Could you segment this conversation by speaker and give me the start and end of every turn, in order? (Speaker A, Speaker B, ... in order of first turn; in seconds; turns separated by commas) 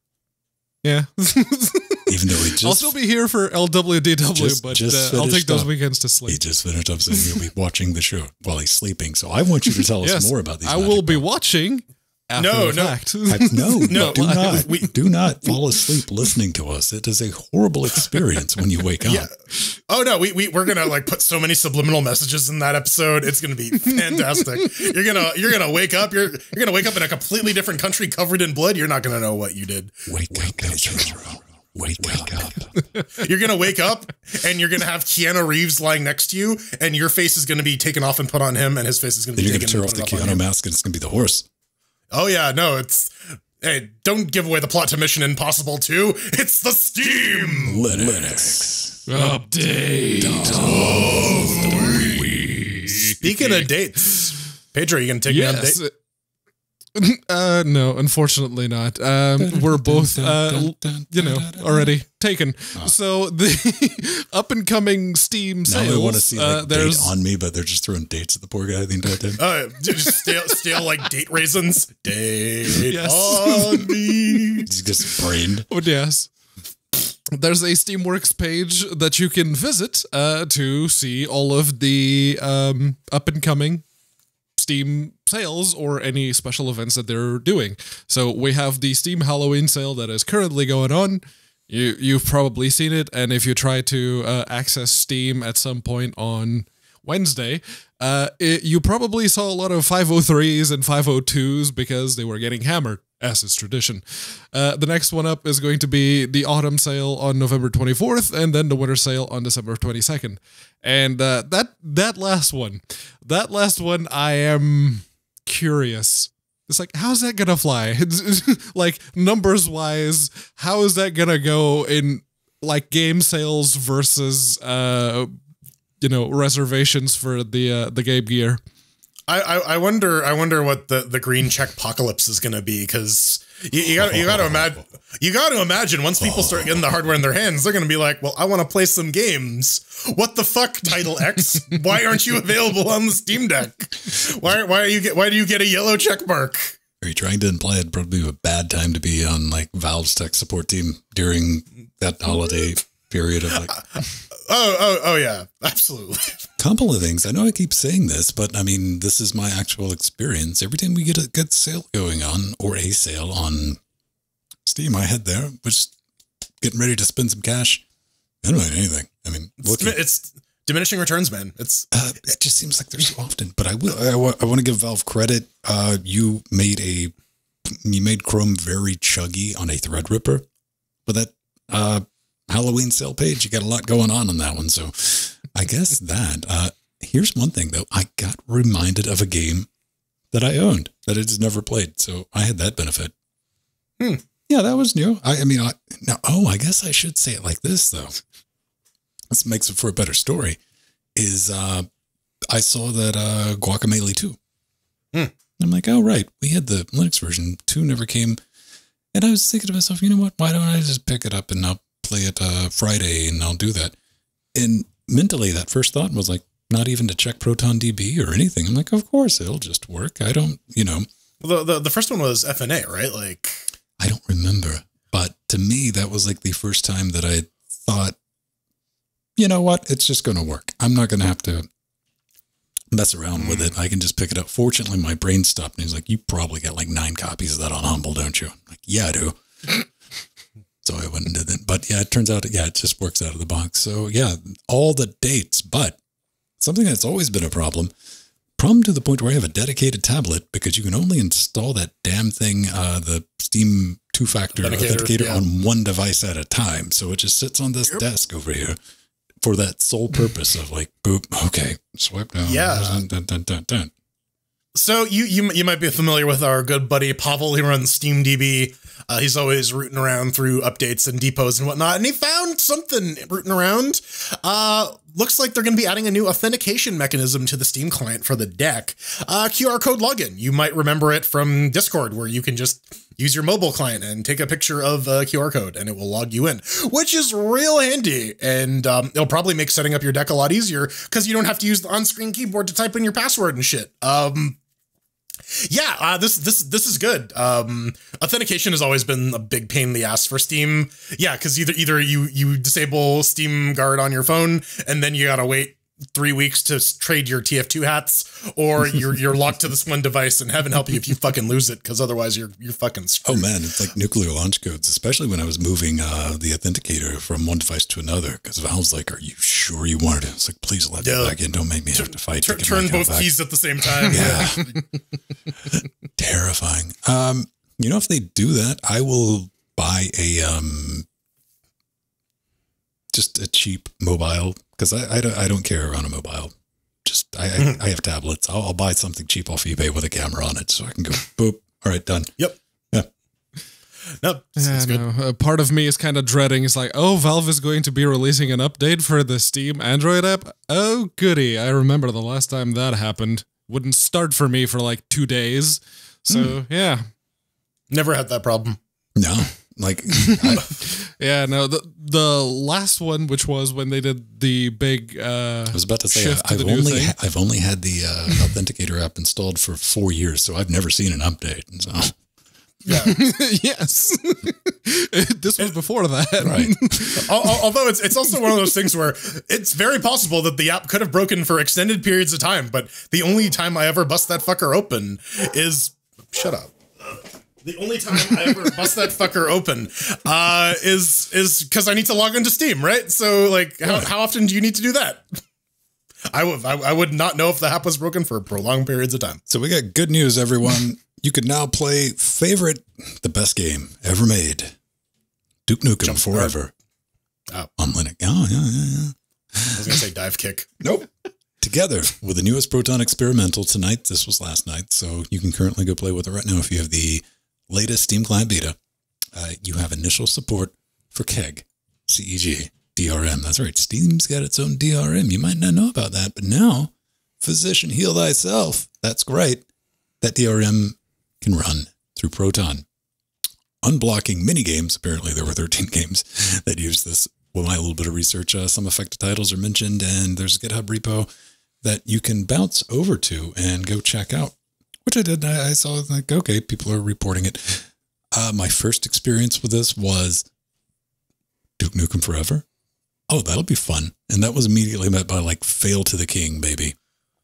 Speaker A: 0.8-6.4, Speaker B: 2.1-2.9, Speaker B: 4.3-5.7, Speaker B: 6.3-11.2, Speaker A: 9.8-14.7, Speaker C: 12.3-13.0, Speaker B: 13.3-19.3, Speaker C: 13.9-14.9, Speaker C: 19.1-31.1, Speaker B: 30.1-32.8, Speaker A: 32.8-33.0, Speaker C: 33.1-40.4, Speaker B: 39.4-41.5, Speaker C: 42.1-48.6, Speaker B: 47.6-49.4, Speaker A: 49.1-53.7, Speaker B: 50.2-53.1, Speaker C: 53.2-55.8, Speaker A: 55.3-55.9, Speaker A: 57.0-67.2, Speaker B: 59.4-61.9, Speaker B: 65.7-69.4, Speaker C: 69.4-74.7, Speaker A: 72.9-74.4, Speaker B: 74.7-75.7, Speaker A: 75.7-76.3, Speaker A: 77.3-83.8, Speaker A: 84.6-125.3, Speaker A: 126.0-128.6, Speaker C: 129.3-146.8, Speaker B: 133.9-134.8, Speaker B: 136.2-136.8, Speaker B: 147.0-153.8, Speaker C: 153.7-156.5, Speaker B: 156.6-163.8, Speaker B: 164.7-165.9, Speaker B: 166.6-167.8, Speaker B: 168.4-170.0, Speaker C: 169.6-171.9, Speaker B: 171.9-177.1, Speaker B: 177.7-180.5, Speaker B: 181.1-189.7, Speaker B: 190.3-193.1, Speaker B: 194.5-198.2, Speaker B: 199.3-200.6, Speaker B: 201.2-201.9, Speaker B: 202.5-204.4, Speaker B: 205.6-208.4, Speaker B: 209.1-213.9, Speaker B: 214.5-221.1, Speaker C: 221.4-223.6, Speaker B: 224.0-228.2, Speaker B: 229.4-231.7, Speaker B: 232.9-239.9, Speaker C: 233.4-233.7, Speaker B: 240.8-246.0, Speaker B: 246.6-247.9, Speaker B: 248.6-258.8, Speaker C: 254.6-255.4, Speaker B: 259.4-263.9, Speaker C: 262.4-263.0, Speaker C: 264.8-294.6, Speaker C: 295.5-313.5, Speaker B: 313.2-323.3, Speaker C: 321.0-321.4, Speaker C: 321.9-324.7, Speaker B: 324.1-324.7, Speaker B: 325.7-331.1, Speaker B: 333.1-336.5, Speaker B: 337.1-342.3, Speaker C: 344.2-345.1, Speaker A: 344.6-357.1, Speaker B: 356.3-356.6, Speaker C: 357.9-358.8, Speaker B: 359.2-360.6, Speaker A: 360.3-367.1, Speaker B: 365.7-372.2, Speaker C: 372.9-373.2, Speaker A: 372.9-377.6, Speaker B: 376.4-376.8, Speaker C: 377.0-395.2, Speaker C: 396.3-399.4, Speaker B: 399.5-404.8, Speaker B: 405.7-406.7, Speaker C: 406.0-406.6, Speaker B: 407.8-409.9, Speaker C: 409.7-410.7, Speaker B: 410.8-411.1, Speaker B: 411.6-418.8, Speaker B: 419.3-429.6, Speaker B: 430.2-432.9, Speaker B: 433.8-441.3, Speaker B: 441.8-450.5, Speaker B: 451.8-452.6, Speaker B: 453.3-456.9